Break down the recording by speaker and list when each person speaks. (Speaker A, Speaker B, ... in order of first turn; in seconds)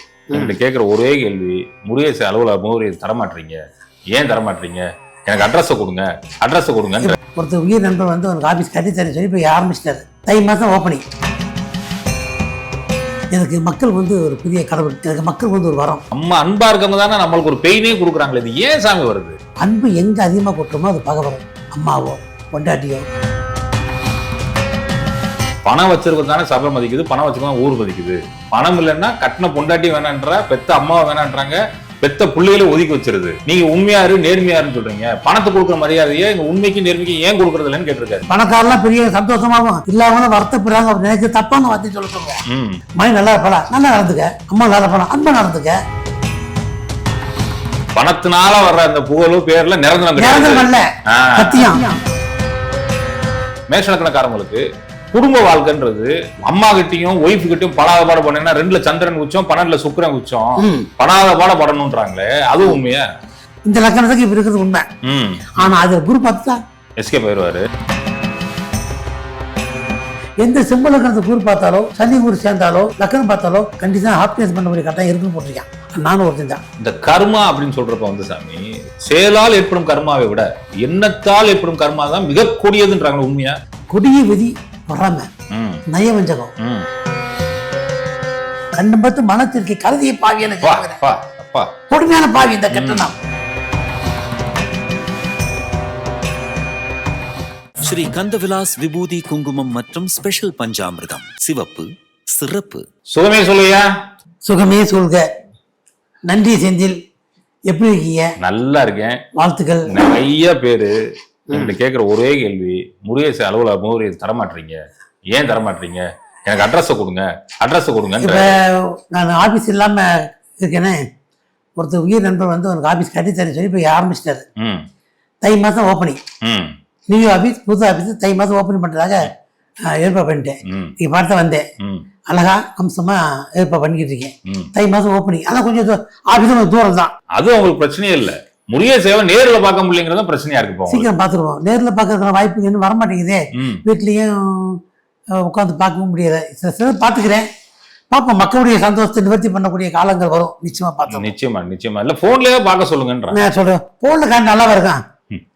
Speaker A: 0.3-3.6, 4.1-7.2, 16.1-19.4, 25.6-38.3, 42.5-42.8, 48.0-51.8, 53.7-63.0, 65.0-65.6, 67.0-67.7, 76.8-83.6, 85.5-85.8, 86.6-86.9, 90.6-91.7, 92.7-93.1, 103.1-103.8, 108.4-109.2, 109.9-110.9, 111.5-114.8, 115.3-118.6, 124.6-124.9, 126.4-126.8, 130.7-130.9, 131.8-132.1, 137.3-141.1, 143.6-143.8, 151.1-153.4
Speaker B: 7.1-11.0, 13.3-16.0, 19.6-23.1, 38.3-42.4, 43.0-45.8, 50.2-52.0, 60.6-60.9, 63.6-64.9, 65.6-66.6, 70.4-76.6, 83.9-85.3, 85.9-86.5, 88.7-91.0, 91.9-93.1, 104.5-105.3, 106.3-107.0, 107.7-108.3, 109.4-109.9, 118.2-121.0, 121.8-124.5, 125.4-126.2, 127.1-129.3, 129.9-131.7, 132.3-137.1, 140.9-144.8, 145.4-147.5, 148.1-151.3, 153.3-155.0
Speaker C: 97.8-102.8